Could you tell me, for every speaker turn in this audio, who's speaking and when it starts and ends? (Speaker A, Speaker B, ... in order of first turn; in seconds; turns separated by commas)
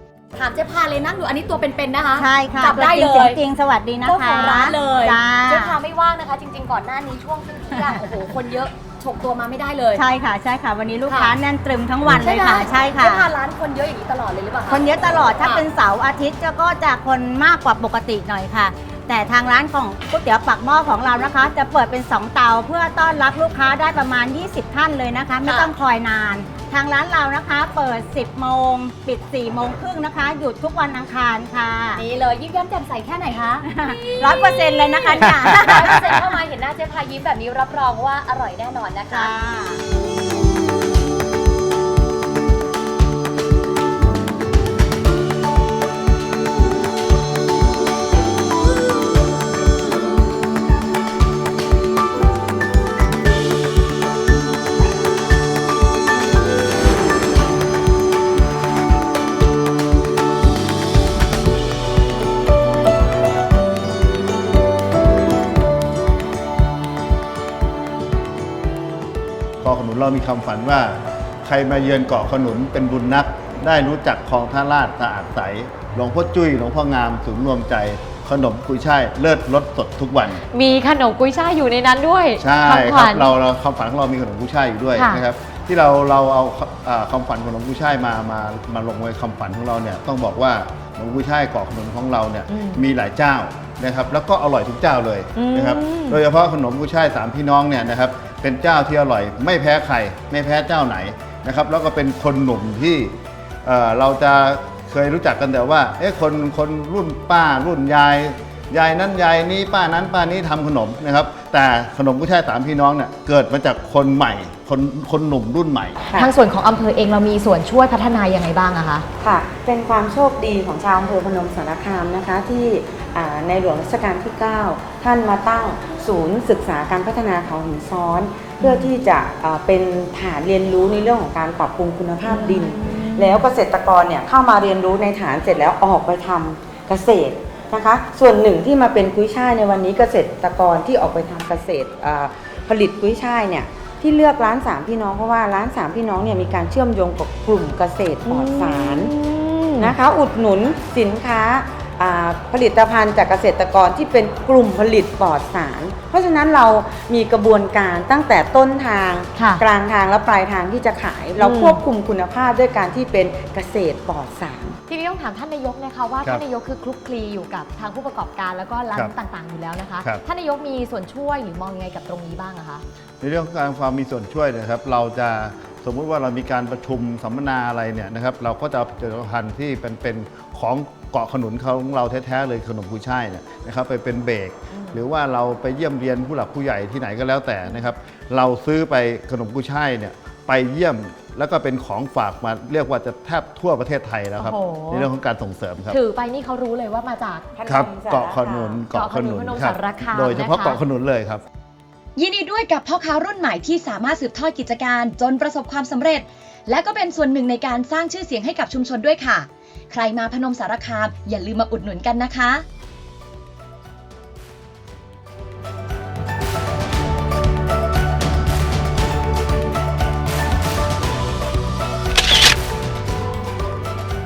Speaker A: 0.3-3.4, Speaker B: 2.1-5.8, Speaker A: 4.0-10.0, Speaker B: 9.9-13.3, Speaker A: 11.1-11.3, Speaker A: 12.0-15.6, Speaker B: 14.7-32.0, Speaker A: 25.4-25.7, Speaker A: 31.9-39.3, Speaker B: 33.6-36.4, Speaker B: 39.1-39.8, Speaker C: 69.6-80.4, Speaker A: 80.5-83.3, Speaker C: 82.4-116.0, Speaker A: 85.0-85.2, Speaker A: 92.5-92.8, Speaker A: 95.3-96.2, Speaker D: 116.1-116.3, Speaker A: 116.1-119.0, Speaker D: 119.2-149.1, Speaker A: 128.6-128.9, Speaker A: 132.2-133.4, Speaker A: 148.2-149.9, Speaker D: 149.8-164.8, Speaker A: 159.3-159.6, Speaker A: 161.4-161.8, Speaker A: 164.9-172.8, Speaker C: 173.2-196.0, Speaker A: 184.7-185.0, Speaker A: 194.4-195.1, Speaker A: 195.9-197.5, Speaker D: 197.5-198.8, Speaker C: 197.7-201.4, Speaker A: 198.9-200.8, Speaker E: 202.2-212.6